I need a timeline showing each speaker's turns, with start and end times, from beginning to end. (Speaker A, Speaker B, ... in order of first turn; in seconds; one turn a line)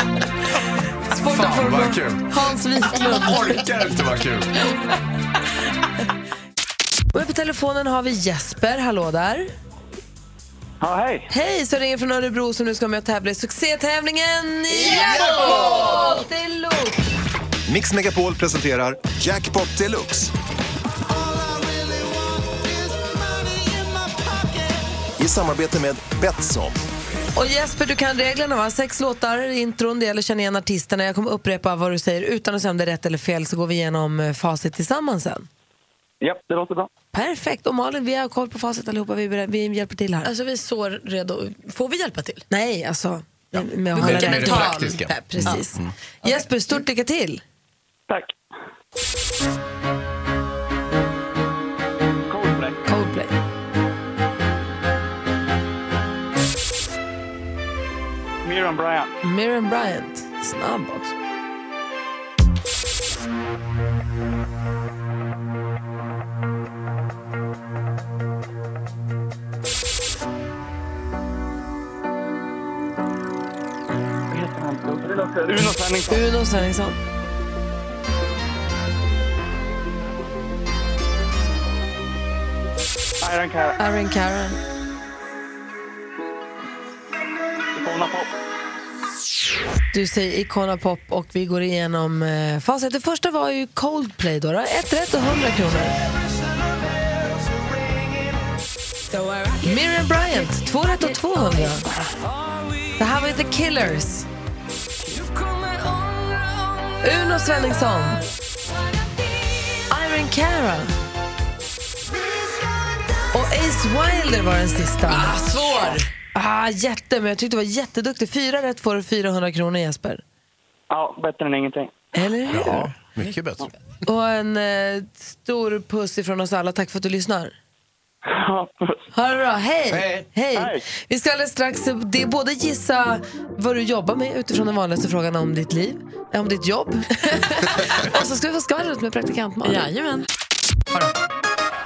Speaker A: 1.1-3.6
Speaker B: 1.2-2.3
Speaker B: 2.9-4.5
Speaker A: 7.1-9.5
Speaker C: 10.8-11.3
Speaker A: 11.3-17.0
Speaker D: 17.7-20.3
Speaker D: 25.2-26.8
Speaker A: 27.4-35.5
Speaker C: 36.2-36.9
Speaker A: 37.1-40.3
Speaker E: 40.2-42.5
Speaker A: 42.5-47.4
Speaker B: 43.5-45.9
Speaker E: 43.9-45.6
Speaker C: 52.3-52.8
Speaker A: 52.9-53.3
Speaker C: 58.5-59.1
Speaker A: 59.2-61.1
Speaker C: 74.3-76.2
Speaker A: 76.1-77.0
Speaker C: 83.2-83.8
Speaker A: 83.8-84.6
Speaker C: 87.8-88.3
Speaker A: 89.9-96.0
Speaker A: 99.6-101.9
Speaker A: 103.0-104.3
Speaker A: 107.0-108.2
Speaker A: 109.9-110.9
Speaker A: 113.3-115.4
Speaker E: 115.1-116.1
Speaker A: 116.3-120.2
Speaker C: 120.9-121.9
Speaker A: 122.1-122.9
Speaker B: 122.5-123.7
Speaker A: 124.0-127.5
Speaker C: 128.3-128.9
Speaker A: 129.1-139.9
Speaker B: 129.9-130.3
Speaker E: 139.6-140.3